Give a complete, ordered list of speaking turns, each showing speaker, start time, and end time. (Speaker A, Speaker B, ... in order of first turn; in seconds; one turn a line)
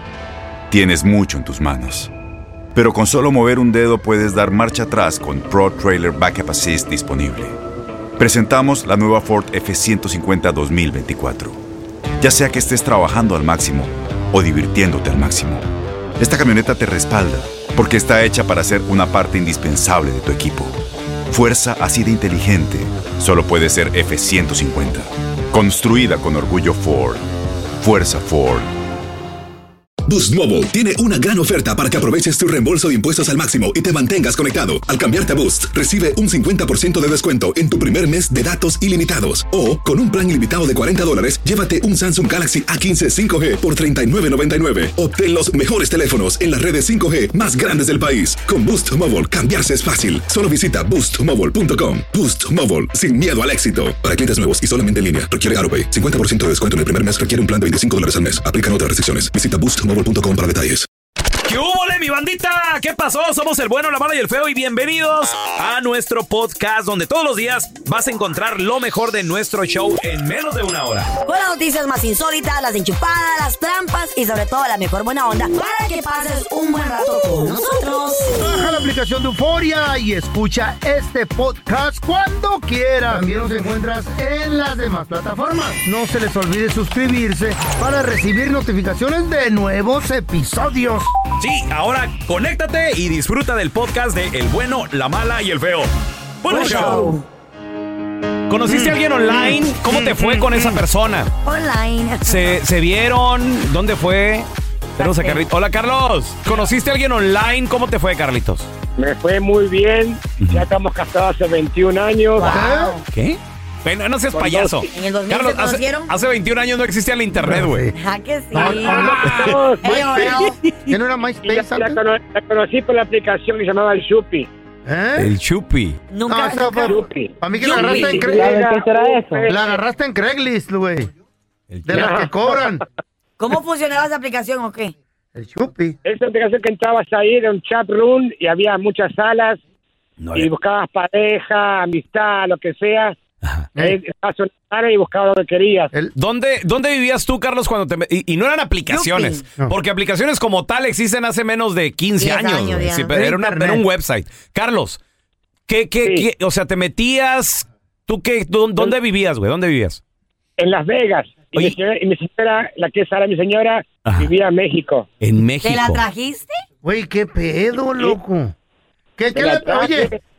Speaker A: 0.7-2.1
Speaker A: 2.8-7.6
Speaker A: 8.2-11.6
Speaker A: 12.2-15.7
Speaker A: 16.2-27.2
Speaker A: 27.8-28.7
Speaker B: 30.1-60.9
Speaker C: 61.4-71.1
Speaker D: 71.2-78.5
Speaker E: 78.3-91.1
Speaker C: 91.4-95.9
Speaker C: 96.4-97.1
Speaker D: 96.5-97.2
Speaker C: 98.5-101.3
Speaker E: 98.7-100.7
Speaker D: 101.5-102.6
Speaker C: 102.2-108.7
Speaker D: 105.0-105.4
Speaker F: 109.0-112.6
Speaker C: 110.4-110.7
Speaker D: 112.4-113.0
Speaker E: 112.4-113.0
Speaker C: 113.1-117.9
Speaker F: 114.4-114.8
Speaker D: 114.9-116.1
Speaker E: 117.4-117.9
Speaker D: 118.0-120.5
Speaker E: 118.5-122.0
Speaker F: 118.8-120.2
Speaker F: 121.4-124.5
Speaker E: 124.9-125.3
Speaker C: 125.2-126.0
Speaker D: 126.1-127.0
Speaker E: 126.3-128.8
Speaker F: 126.8-129.8
Speaker E: 129.5-131.1
Speaker C: 131.7-132.2
Speaker E: 131.9-132.8
Speaker F: 131.9-132.8
Speaker D: 133.4-134.9
Speaker E: 135.4-136.0
Speaker F: 136.0-139.6
Speaker C: 140.2-140.5
Speaker F: 140.3-143.2
Speaker F: 143.8-145.9
Speaker C: 146.2-155.0
Speaker D: 148.9-149.4
Speaker D: 152.2-153.1
Speaker E: 153.2-153.8
Speaker C: 155.7-160.0
Speaker F: 160.6-165.1
Speaker C: 165.2-166.0
Speaker D: 165.6-166.6
Speaker E: 166.8-168.5
Speaker E: 169.2-170.1
Speaker F: 169.3-170.1